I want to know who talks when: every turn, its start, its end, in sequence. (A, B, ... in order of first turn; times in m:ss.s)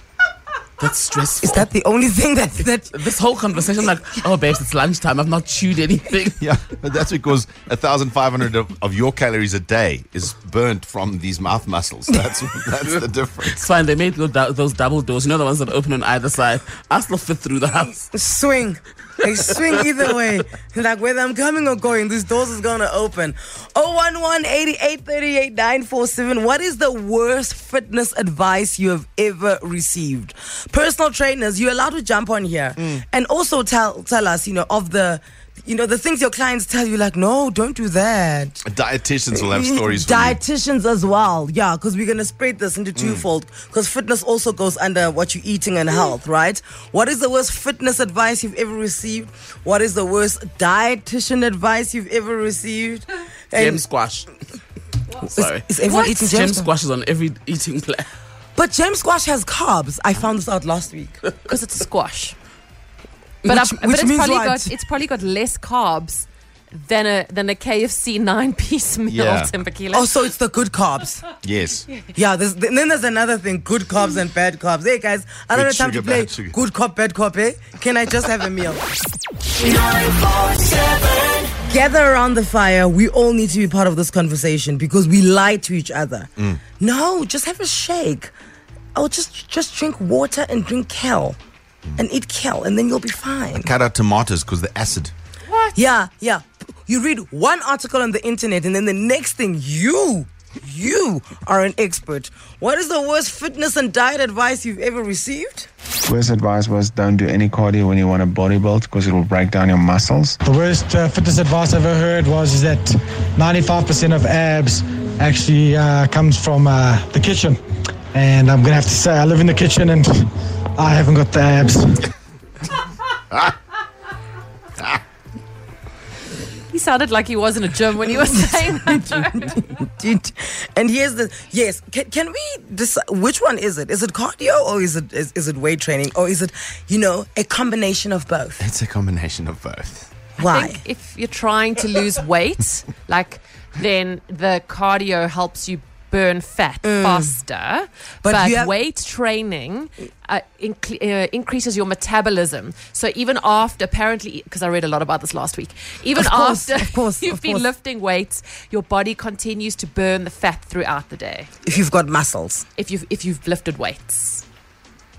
0:00.8-0:01.7 A
0:01.4-0:03.0 B
0:02.9-0:06.4 A
0:06.4-0:13.6 C
0:13.5-0:18.1 A
0:18.1-0:38.6 B
0:38.6-0:40.4 C
0:39.3-0:53.8 B
0:43.0-0:43.2 C
0:53.5-0:54.3 A
0:55.2-0:58.1 A
0:55.4-0:56.7 B
0:55.8-0:56.1 D
0:58.6-1:01.2 B
1:01.5-1:02.4 D
1:03.4-1:10.1 D
1:03.5-1:04.7 B
1:09.1-1:09.5 C
1:09.9-1:11.2 B
1:11.4-1:11.9 C
1:12.1-1:18.8 B
1:15.5-1:16.5 C
1:21.6-1:28.3 B
1:26.4-1:26.6 C
1:28.9-1:31.4 B
1:32.0-1:33.7 B
1:33.6-1:35.1 C
1:35.7-1:45.7 B
1:46.1-1:50.4 E
1:50.6-1:57.6 F
1:58.2-2:00.1 F
2:00.8-2:01.9 F
2:06.7-2:09.5 D
2:08.3-2:18.6 B
2:18.6-2:20.1 C
2:20.4-2:20.8 B
2:20.4-2:41.5 D
2:26.8-2:27.4 B
2:28.2-2:28.7 B
2:36.1-2:37.7 B
2:41.6-2:42.6 B
2:42.8-2:44.4 D